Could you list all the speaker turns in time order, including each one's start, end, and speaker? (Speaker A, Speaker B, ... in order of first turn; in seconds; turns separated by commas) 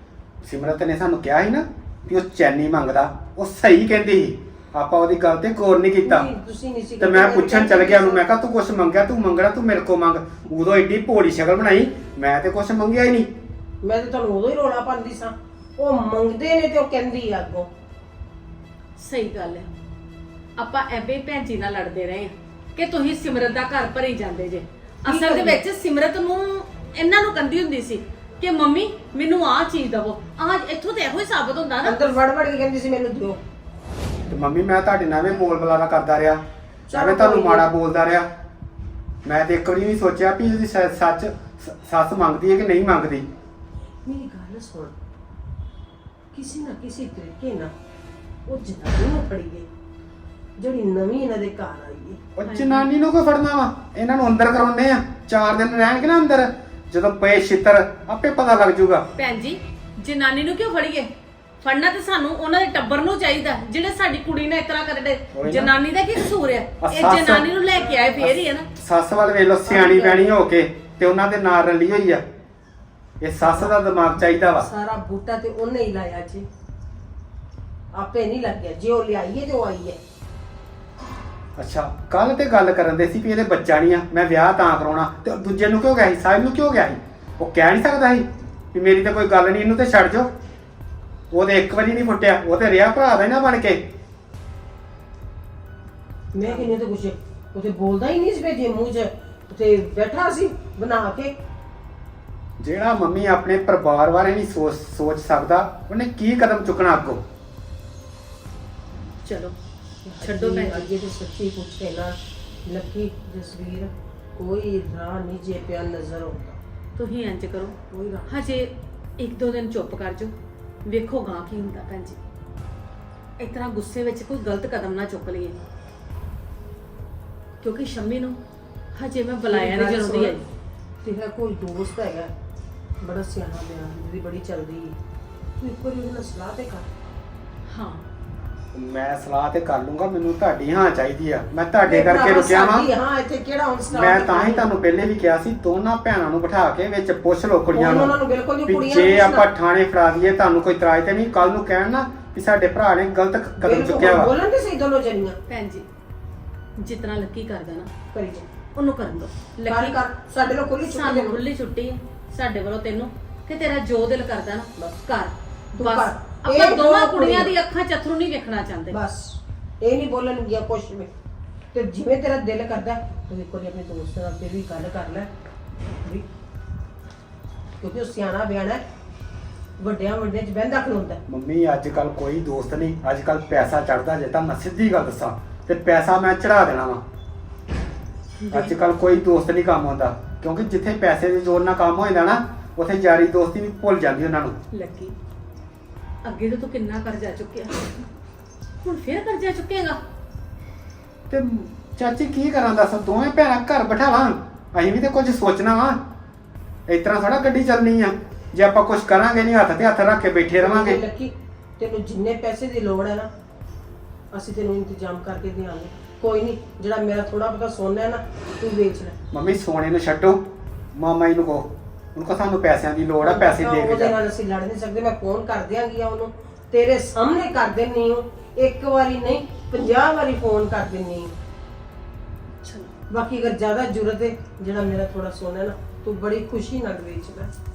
Speaker A: 0.4-6.3, Speaker B: 6.0-8.2, Speaker A: 7.0-13.3, Speaker B: 13.8-17.7, Speaker C: 19.0-19.7, Speaker C: 20.6-32.0, Speaker B: 25.1-25.6, Speaker B: 31.8-33.4, Speaker A: 34.3-36.4, Speaker B: 36.9-37.7, Speaker A: 36.9-38.3, Speaker A: 39.2-43.3, Speaker B: 44.0-45.0, Speaker B: 46.3-47.7, Speaker B: 48.5-49.7, Speaker B: 50.6-52.2, Speaker A: 52.4-59.1, Speaker C: 52.5-52.9, Speaker C: 59.2-61.1, Speaker C: 61.6-68.7, Speaker A: 65.3-65.7, Speaker A: 66.8-67.5, Speaker A: 68.2-72.2, Speaker B: 69.7-70.3, Speaker A: 73.2-74.7, Speaker B: 73.4-73.7, Speaker B: 74.5-76.5, Speaker B: 77.9-80.0, Speaker A: 81.6-90.3, Speaker A: 91.3-93.9, Speaker B: 96.3-101.3, Speaker A: 102.6-107.2, Speaker C: 109.2-109.5, Speaker B: 110.0-116.6, Speaker C: 110.2-110.9, Speaker C: 117.0-117.8, Speaker B: 117.9-118.4, Speaker C: 118.3-120.3, Speaker C: 120.8-122.2, Speaker C: 123.4-125.6, Speaker C: 127.6-128.4, Speaker C: 128.9-130.4, Speaker B: 129.5-130.4, Speaker B: 131.0-132.3, Speaker B: 133.0-135.0, Speaker B: 135.6-136.9, Speaker C: 137.7-138.0, Speaker A: 138.7-142.9, Speaker B: 141.8-144.7, Speaker A: 143.9-148.2, Speaker B: 147.7-149.5, Speaker A: 148.7-154.3, Speaker B: 153.6-155.4, Speaker C: 155.5-155.9, Speaker C: 156.8-157.9, Speaker B: 158.1-158.5, Speaker C: 158.8-160.0, Speaker B: 159.7-161.4, Speaker C: 160.8-169.0, Speaker B: 165.8-167.6, Speaker B: 168.9-171.1, Speaker B: 171.7-175.3, Speaker B: 177.8-178.8, Speaker B: 179.8-181.2, Speaker A: 181.3-187.0, Speaker C: 188.4-188.8, Speaker A: 188.5-194.6, Speaker C: 194.7-195.1, Speaker C: 196.2-197.9, Speaker C: 198.8-200.0, Speaker A: 201.3-206.0, Speaker A: 206.9-211.0, Speaker B: 210.6-213.3, Speaker B: 214.3-219.2, Speaker A: 219.3-224.2, Speaker B: 223.2-231.4, Speaker C: 232.6-232.9, Speaker B: 233.1-237.5